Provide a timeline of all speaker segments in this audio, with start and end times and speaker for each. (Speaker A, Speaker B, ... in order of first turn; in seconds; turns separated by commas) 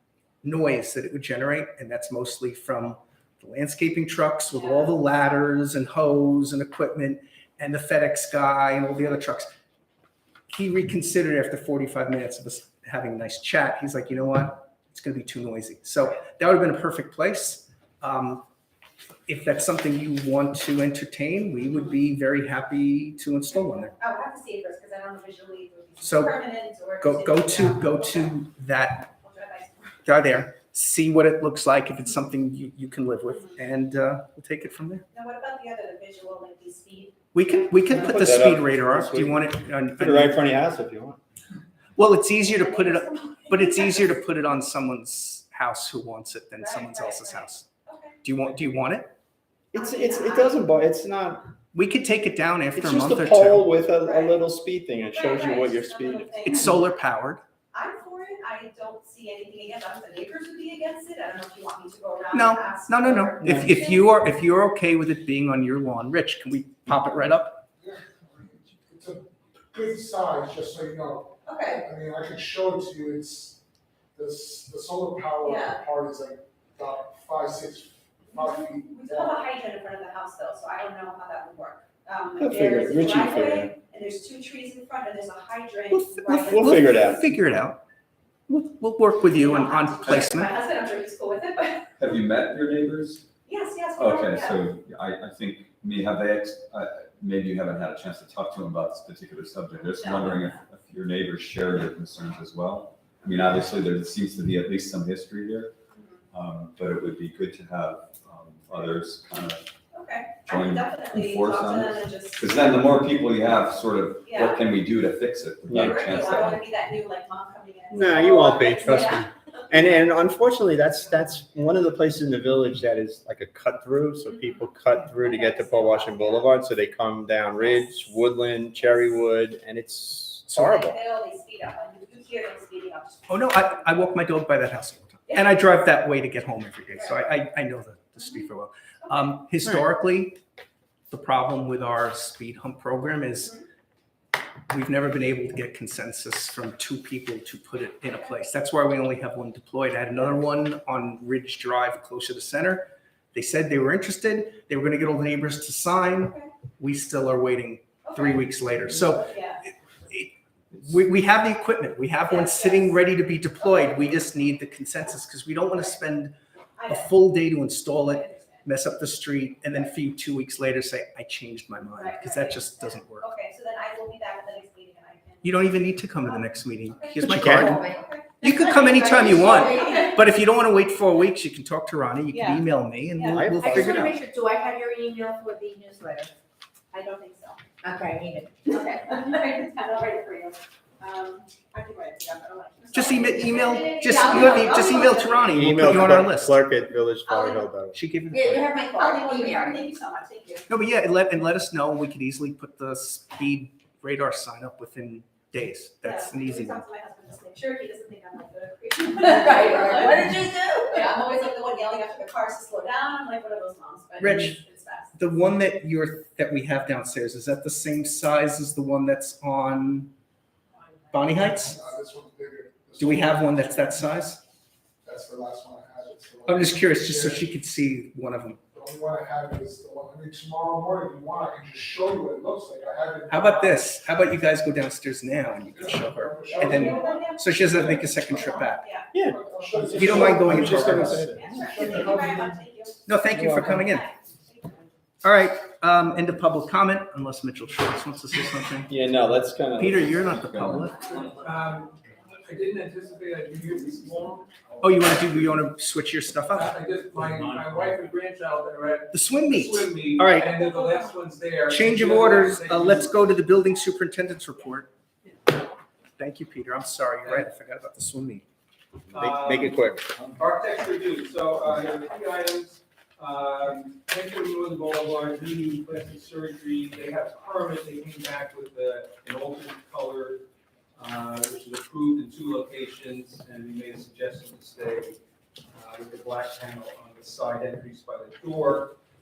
Speaker A: 0.4-9.5, Speaker A: 10.5-18.5, Speaker A: 19.3-23.9, Speaker B: 24.0-28.3, Speaker A: 26.0-26.3, Speaker A: 27.0-29.1, Speaker B: 29.2-30.0, Speaker A: 30.1-35.0, Speaker B: 35.1-37.2, Speaker A: 37.3-40.5, Speaker C: 37.9-41.2, Speaker A: 42.0-47.6, Speaker B: 42.5-44.1, Speaker B: 46.6-48.2, Speaker A: 48.2-49.1, Speaker C: 49.7-51.5, Speaker B: 49.7-50.6, Speaker A: 51.7-53.7, Speaker C: 52.8-56.7, Speaker B: 54.0-54.5, Speaker B: 55.1-56.8, Speaker A: 56.5-57.4, Speaker B: 57.7-64.0, Speaker A: 62.3-67.6, Speaker C: 63.4-63.8, Speaker D: 67.8-73.6, Speaker B: 71.5-71.8, Speaker D: 74.2-79.4, Speaker B: 75.4-75.8, Speaker B: 78.3-87.2, Speaker C: 82.4-83.7, Speaker A: 85.9-87.8, Speaker C: 86.5-87.3, Speaker A: 88.5-90.5, Speaker B: 89.3-91.9, Speaker E: 92.0-93.3, Speaker B: 93.5-94.6, Speaker E: 94.0-105.8, Speaker B: 99.8-100.6, Speaker B: 105.9-106.2, Speaker E: 106.3-109.7, Speaker B: 109.9-112.8, Speaker E: 110.4-116.6, Speaker B: 114.2-114.6, Speaker B: 115.7-119.6, Speaker C: 117.9-131.0, Speaker B: 125.2-126.5, Speaker B: 130.5-133.4, Speaker A: 133.3-140.4, Speaker A: 141.1-143.6, Speaker A: 144.7-166.3, Speaker B: 156.2-156.5, Speaker B: 158.1-159.7, Speaker B: 162.3-163.0, Speaker B: 166.8-167.1, Speaker A: 166.9-173.3, Speaker B: 167.9-168.7, Speaker B: 172.0-180.2, Speaker A: 175.4-177.9, Speaker C: 177.2-177.8, Speaker F: 177.5-178.0, Speaker A: 178.4-184.2, Speaker F: 178.7-179.9, Speaker B: 182.3-183.5, Speaker C: 183.3-184.1, Speaker F: 183.6-186.3, Speaker B: 186.9-187.7, Speaker F: 187.8-188.5, Speaker B: 188.7-196.3, Speaker A: 192.9-196.6, Speaker C: 195.5-198.0, Speaker B: 197.3-197.7, Speaker A: 197.9-198.7, Speaker F: 198.3-199.8, Speaker B: 198.5-200.7, Speaker A: 200.7-206.8, Speaker B: 206.0-215.1, Speaker F: 209.4-211.0, Speaker A: 214.2-214.6, Speaker A: 215.2-220.1, Speaker A: 221.1-221.9, Speaker D: 221.4-223.4, Speaker A: 223.0-224.4, Speaker D: 225.0-227.4, Speaker A: 226.5-228.6, Speaker D: 228.7-233.8, Speaker A: 233.3-238.9, Speaker D: 235.7-237.3, Speaker B: 236.5-239.1, Speaker C: 239.1-242.0, Speaker D: 239.3-242.6, Speaker A: 239.9-241.3, Speaker B: 241.4-243.0, Speaker A: 243.1-244.1, Speaker C: 243.3-243.8, Speaker B: 243.6-244.9, Speaker A: 245.2-248.9, Speaker C: 248.9-250.2, Speaker A: 249.8-251.1, Speaker E: 250.2-251.0, Speaker G: 251.1-255.6, Speaker A: 254.8-256.8, Speaker G: 256.5-263.3, Speaker A: 259.1-260.6, Speaker A: 261.7-264.9, Speaker A: 266.2-268.4, Speaker C: 269.1-270.1, Speaker G: 269.1-269.8, Speaker G: 270.4-280.4, Speaker G: 281.0-285.2, Speaker G: 285.7-289.0